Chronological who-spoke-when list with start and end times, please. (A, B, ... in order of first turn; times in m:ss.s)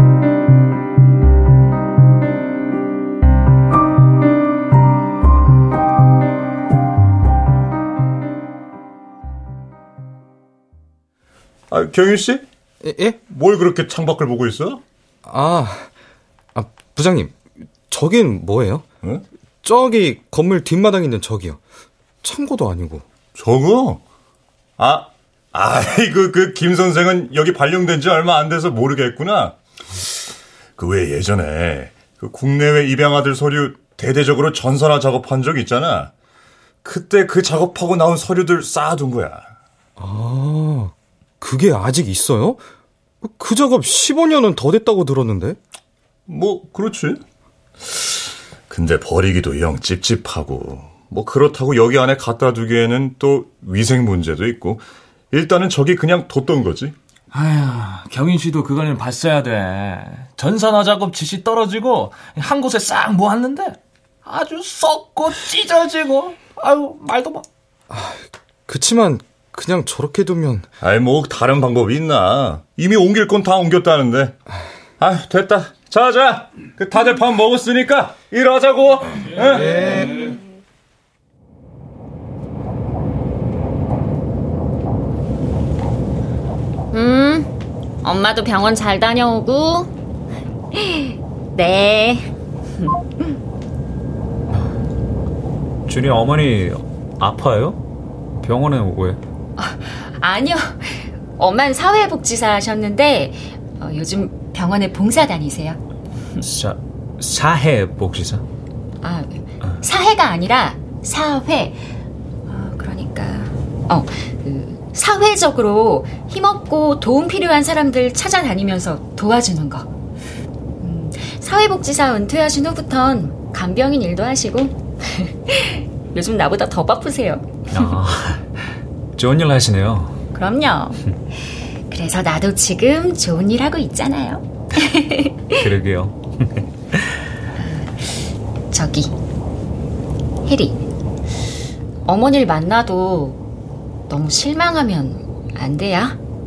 0:11.7-0:12.4 A
0:12.8-0:13.2 B
0:13.3-0:14.8 A
0:15.2-0:15.9 B
0:16.6-0:18.8 B
0:19.6-0:21.6 B
0:22.2-0:23.0 B
0:23.4-0:24.0 A
0:24.8-0:30.1 A
0:30.8-0:36.1 A
0:36.8-0:39.5 A
0:40.0-0:42.6 B
0:43.2-0:45.6 B
0:46.3-0:47.2 A
0:47.8-0:56.9 A
0:57.3-1:07.4 C
1:07.9-1:10.7 B
1:10.8-1:14.4 A
1:15.0-1:20.3 A
1:19.5-1:20.1 B
1:26.9-1:27.4 D
1:28.0-1:29.9 D
1:30.7-1:32.3 D
1:35.9-1:37.8 E
1:38.4-1:39.2 E
1:39.6-1:45.8 D
1:46.4-1:48.4 E
1:49.0-1:51.8 D
1:52.5-1:59.9 D
2:00.8-2:07.9 D
2:07.7-2:08.5 E
2:09.2-2:10.2 E
2:10.3-2:11.0 D
2:11.9-2:15.6 D
2:15.6-2:17.2 E
2:17.6-2:19.1 D
2:20.4-2:20.8 D
2:22.1-2:23.4 D
2:24.1-2:26.2 D